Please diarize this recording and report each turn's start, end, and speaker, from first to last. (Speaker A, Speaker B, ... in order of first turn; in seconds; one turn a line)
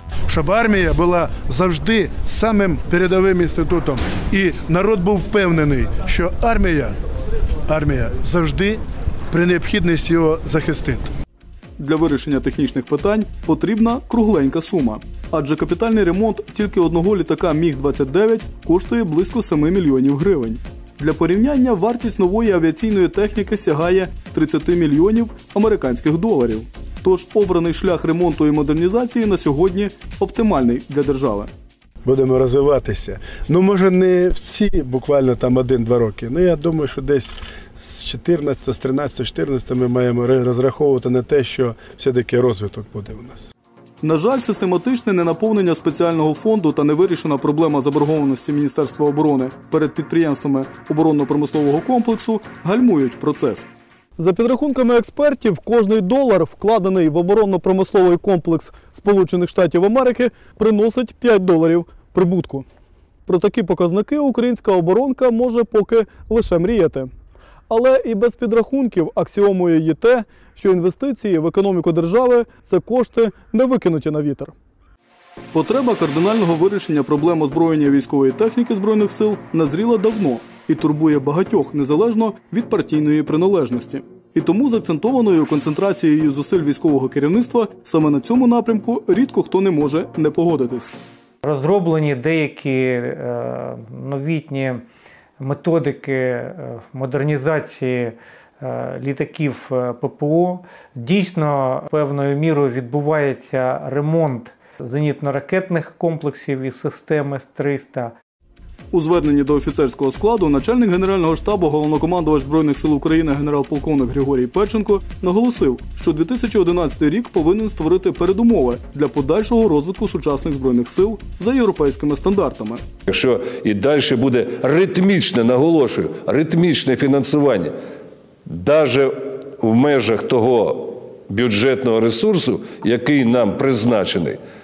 Speaker A: 0.3-6.9
Speaker A: 7.7-11.1
Speaker B: 11.8-31.5
Speaker A: 32.0-43.5
Speaker B: 44.0-53.6
Speaker B: 54.2-62.7
Speaker B: 63.3-67.1
Speaker B: 67.7-74.5
Speaker B: 75.5-90.9
Speaker C: 91.4-94.8
Speaker C: 95.4-108.1
Speaker B: 108.9-122.8
Speaker D: 123.1-127.7
Speaker D: 128.5-134.4